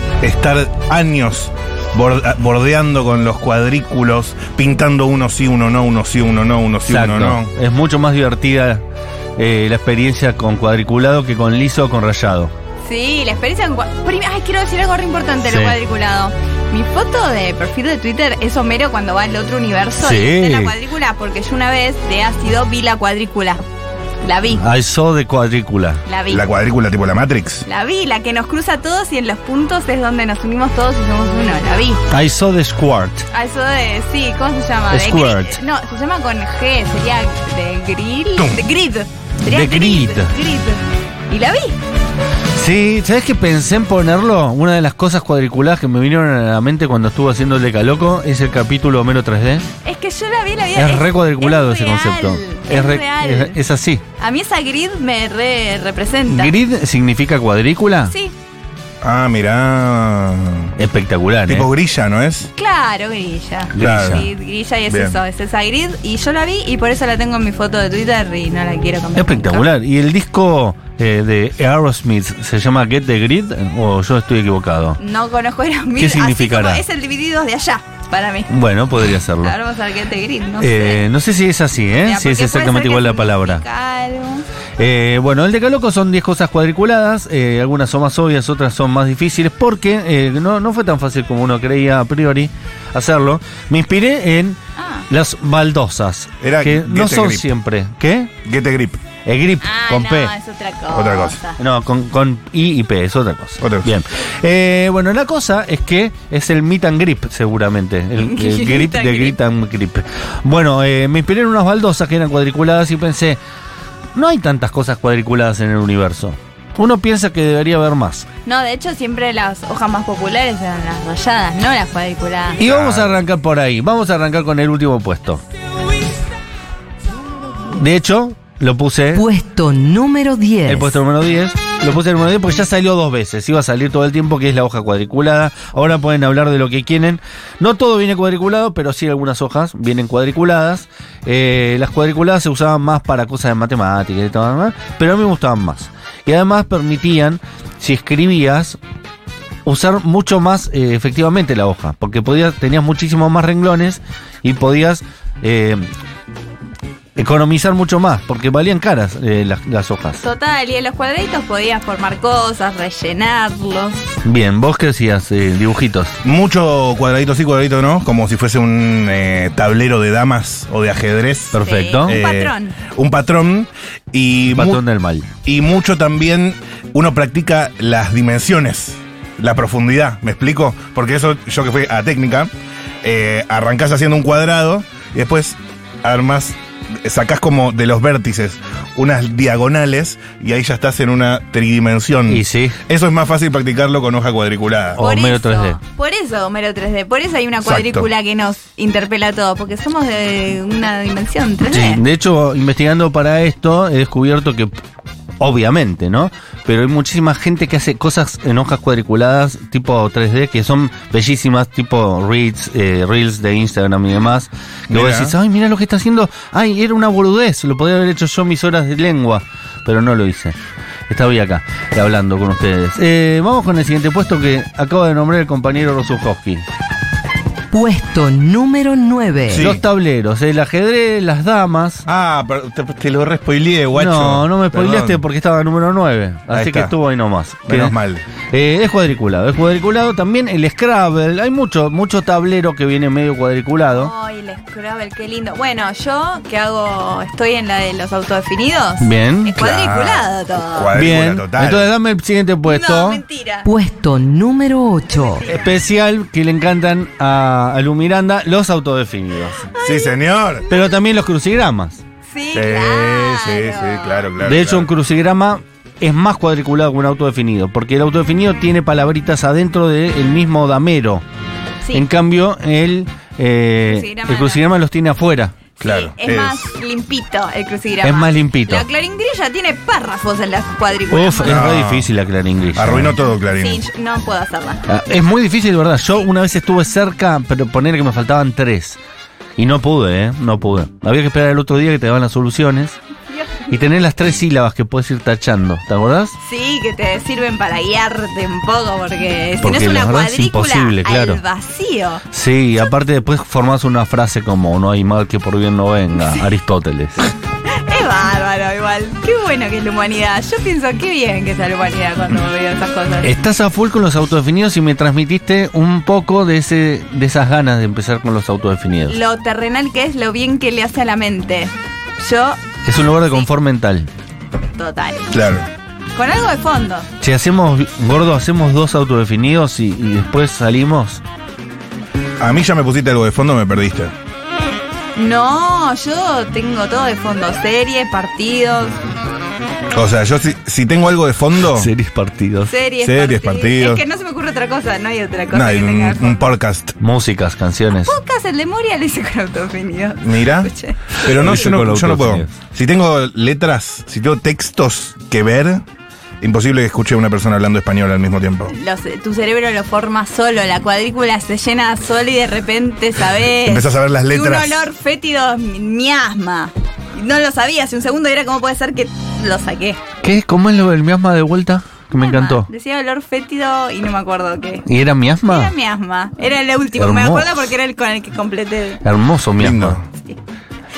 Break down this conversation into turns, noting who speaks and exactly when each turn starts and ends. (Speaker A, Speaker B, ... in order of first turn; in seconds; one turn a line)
Speaker A: 0.2-7.5
Speaker B: 6.9-8.8
Speaker B: 9.4-12.5
Speaker C: 12.8-23.6
Speaker B: 15.4-15.8
Speaker B: 20.0-20.7
Speaker C: 24.2-24.6
Speaker B: 24.5-26.0
Speaker C: 26.1-26.5
Speaker A: 26.3-27.6
Speaker C: 27.7-32.0
Speaker B: 32.1-33.2
Speaker C: 33.3-41.8
Speaker B: 34.9-35.6
Speaker A: 38.4-38.6
Speaker B: 39.5-40.3
Speaker B: 42.5-49.7
Speaker C: 49.8-53.6
Speaker B: 50.8-54.0
Speaker C: 54.2-56.5
Speaker B: 56.3-58.1
Speaker A: 59.0-60.7
Speaker B: 60.8-61.7
Speaker A: 61.4-62.5
Speaker C: 62.6-69.7
Speaker B: 63.7-64.3
Speaker A: 63.8-64.3
Speaker A: 64.9-65.2
Speaker B: 69.2-75.0
Speaker C: 75.0-78.5
Speaker B: 76.0-76.8
Speaker B: 78.5-79.5
Speaker C: 79.4-81.1
Speaker B: 80.6-83.6
Speaker C: 82.0-84.5
Speaker B: 84.8-94.6
Speaker C: 94.8-95.0
Speaker B: 95.1-98.3
Speaker A: 96.4-97.5
Speaker A: 98.4-99.0
Speaker B: 99.2-100.3
Speaker C: 99.6-101.6
Speaker A: 100.9-101.4
Speaker B: 101.6-113.4
Speaker A: 103.6-103.9
Speaker C: 108.2-109.4
Speaker B: 114.1-118.3
Speaker C: 118.5-122.6
Speaker A: 122.6-123.2
Speaker B: 122.6-125.4
Speaker B: 127.7-129.2
Speaker D: 129.1-131.0
Speaker B: 130.6-148.8
Speaker B: 149.7-155.9
Speaker B: 157.2-160.2
Speaker C: 160.2-164.1
Speaker B: 164.2-166.2
Speaker A: 166.2-174.8
Speaker B: 171.5-172.2
Speaker C: 171.6-172.8
Speaker B: 174.5-175.3
Speaker A: 175.4-182.5
Speaker A: 183.0-195.1
Speaker B: 192.3-192.8
Speaker B: 194.9-195.8
Speaker C: 195.0-202.0
Speaker A: 197.6-198.1
Speaker B: 201.7-204.7
Speaker B: 205.4-220.6
Speaker A: 214.9-215.3
Speaker B: 221.1-226.6
Speaker D: 227.7-229.7
Speaker A: 229.5-229.8
Speaker B: 229.5-232.1
Speaker A: 232.1-235.2
Speaker B: 233.9-237.9
Speaker A: 236.5-236.9
Speaker A: 237.7-238.2
Speaker B: 238.5-244.1
Speaker C: 243.9-250.9
Speaker B: 249.0-249.5
Speaker A: 249.6-251.9
Speaker B: 250.9-253.2
Speaker C: 252.7-253.7
Speaker D: 253.6-255.5
Speaker C: 255.1-255.8
Speaker B: 255.5-259.7
Speaker C: 259.7-260.9
Speaker A: 259.8-260.6
Speaker B: 260.7-262.0
Speaker C: 262.3-264.2
Speaker A: 262.5-264.9
Speaker B: 264.4-271.2
Speaker B: 271.9-275.5
Speaker C: 273.9-274.6
Speaker A: 275.8-276.6
Speaker C: 275.8-281.6
Speaker B: 278.0-278.9
Speaker B: 281.1-283.1
Speaker A: 281.4-282.1
Speaker A: 282.7-283.8
Speaker C: 283.4-284.8
Speaker B: 284.9-289.0
Speaker B: 289.6-293.0
Speaker C: 293.3-293.7
Speaker B: 293.7-296.4
Speaker C: 296.4-302.2
Speaker B: 299.6-301.4
Speaker B: 302.3-307.3
Speaker C: 306.2-306.5
Speaker C: 307.7-313.3
Speaker B: 313.2-319.2
Speaker C: 319.1-323.4
Speaker B: 322.8-324.1
Speaker C: 324.8-325.3
Speaker A: 325.3-325.7
Speaker C: 326.1-327.1
Speaker B: 327.2-331.2
Speaker A: 332.4-334.1
Speaker C: 335.1-339.0
Speaker A: 339.9-341.9
Speaker B: 341.7-342.7
Speaker C: 342.7-346.5
Speaker A: 343.0-344.0
Speaker A: 345.5-346.9
Speaker B: 347.0-348.1
Speaker C: 348.0-351.7
Speaker A: 350.2-355.8
Speaker B: 351.2-352.5
Speaker A: 356.4-358.7
Speaker C: 358.7-370.0
Speaker A: 363.6-364.9
Speaker B: 370.2-372.7
Speaker C: 372.2-374.9
Speaker B: 374.8-375.7
Speaker C: 375.4-379.0
Speaker B: 376.9-377.7
Speaker B: 379.0-380.0
Speaker A: 379.6-380.1